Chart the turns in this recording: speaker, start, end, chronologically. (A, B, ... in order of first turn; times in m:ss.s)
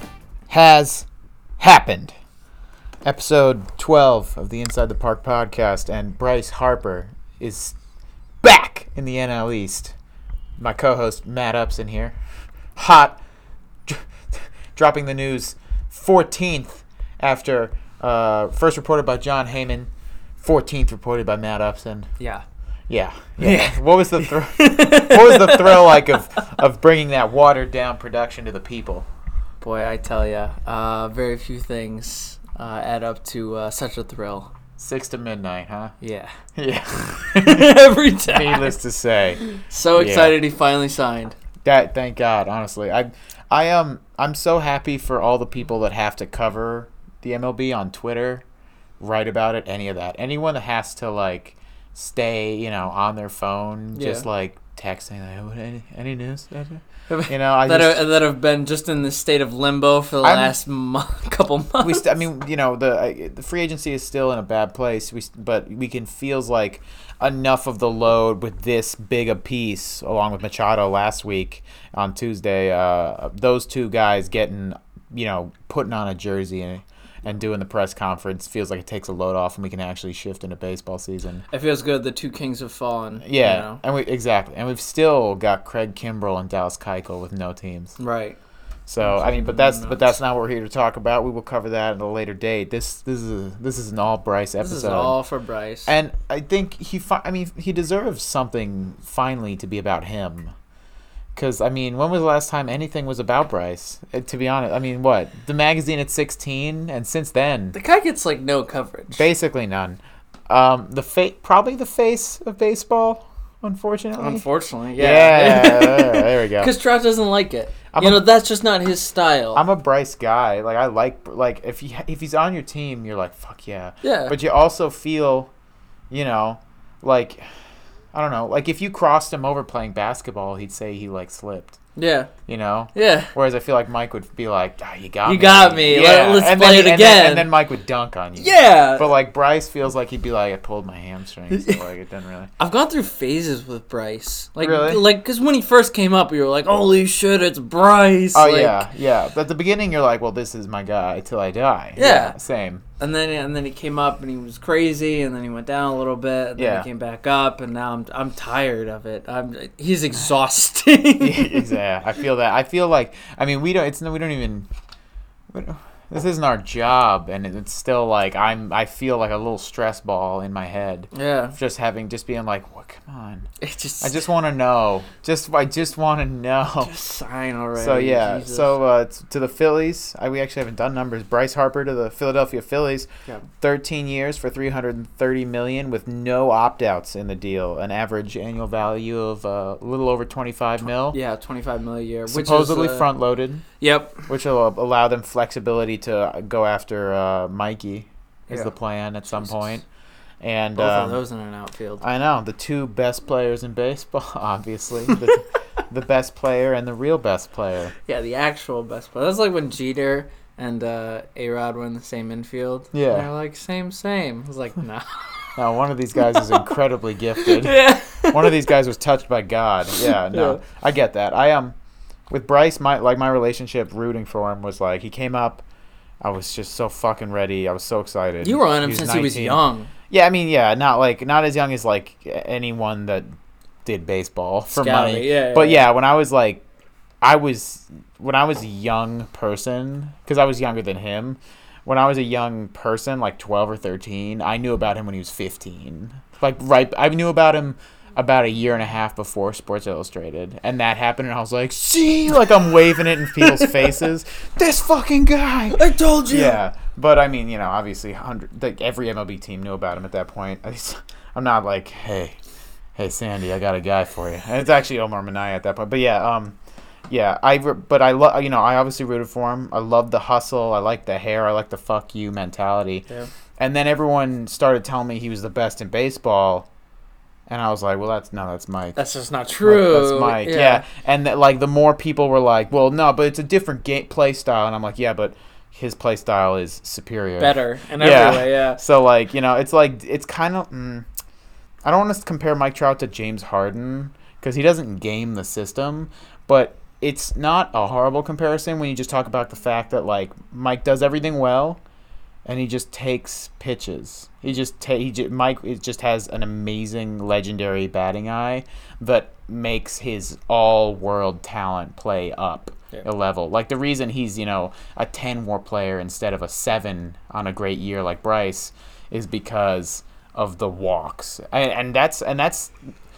0:00.5-0:01.1 A
0:01.6-0:02.1 A
0:03.0-0:07.8 A
0:08.4-0:09.9 A
0:10.6-0:12.2 A
0:12.8-0:13.2 A
0:13.8-0:19.9 A
0:20.4-0:22.1 A
0:22.2-0:22.4 B
0:22.9-0:29.1 A
0:23.4-0:26.2 B
0:29.6-0:34.5 B
0:34.8-0:35.9 A
0:36.0-0:36.3 B
0:36.6-0:39.4 A
0:37.3-0:38.8 B
0:39.4-0:41.4 B
0:39.9-0:40.4 A
0:41.6-0:48.4 A
0:49.0-0:58.1 A
0:53.9-0:54.3 B
0:57.1-1:02.0 B
1:00.2-1:00.6 A
1:01.8-1:21.4 A
1:21.5-1:23.8 B
1:23.2-1:28.0 A
1:28.0-1:28.4 B
1:28.9-1:35.2 A
1:29.0-1:30.2 B
1:34.6-1:35.9 B
1:35.8-1:40.5 A
1:41.3-1:47.8 A
1:47.7-1:49.2 B
1:49.1-1:54.4 A
1:54.2-1:59.6 B
1:55.0-1:56.7 A
1:57.9-1:58.2 A
1:59.5-2:05.5 A
2:04.0-2:04.4 B
2:06.1-2:11.8 A
2:12.0-2:12.3 B
2:12.5-2:22.5 A
2:12.9-2:13.3 B
2:15.2-2:17.5 B
2:18.4-2:19.1 B
2:21.5-2:21.8 B
2:22.6-2:28.9 B
2:24.6-2:25.0 A
2:28.3-2:32.8 A
2:32.0-2:32.4 B
2:33.0-2:41.8 B
2:36.6-2:36.9 A
2:41.2-2:44.7 A
2:45.5-2:53.5 A
2:51.1-2:51.6 B
2:53.6-2:54.3 B
2:54.0-2:56.9 A
2:56.8-2:58.7 B
2:57.8-3:03.1 A
3:03.6-3:11.2 A
3:11.1-3:13.1 B
3:12.3-3:13.6 A
3:13.8-3:14.3 B
3:14.3-3:19.8 A
3:18.5-3:18.7 B
3:19.2-3:19.7 B
3:20.4-3:21.2 A
3:20.8-3:22.0 B
3:22.0-3:27.9 A
3:28.0-3:35.5 B
3:32.9-3:33.3 A
3:35.6-3:41.7 A
3:36.2-3:36.6 B
3:37.4-3:38.7 B
3:40.0-3:40.6 B
3:42.3-3:45.6 A
3:46.2-3:53.3 A
3:48.4-3:49.9 B
3:53.8-3:56.6 A
3:54.7-3:55.9 B
3:57.2-4:22.4 A
4:13.4-4:13.7 B
4:15.7-4:16.6 B
4:23.0-4:26.6 A
4:27.1-4:33.0 A
4:33.6-4:36.7 A
4:37.5-4:39.0 A
4:39.0-4:40.8 B
4:39.6-4:51.1 A
4:47.4-4:48.8 B
4:51.8-5:01.8 A
5:02.4-5:22.7 A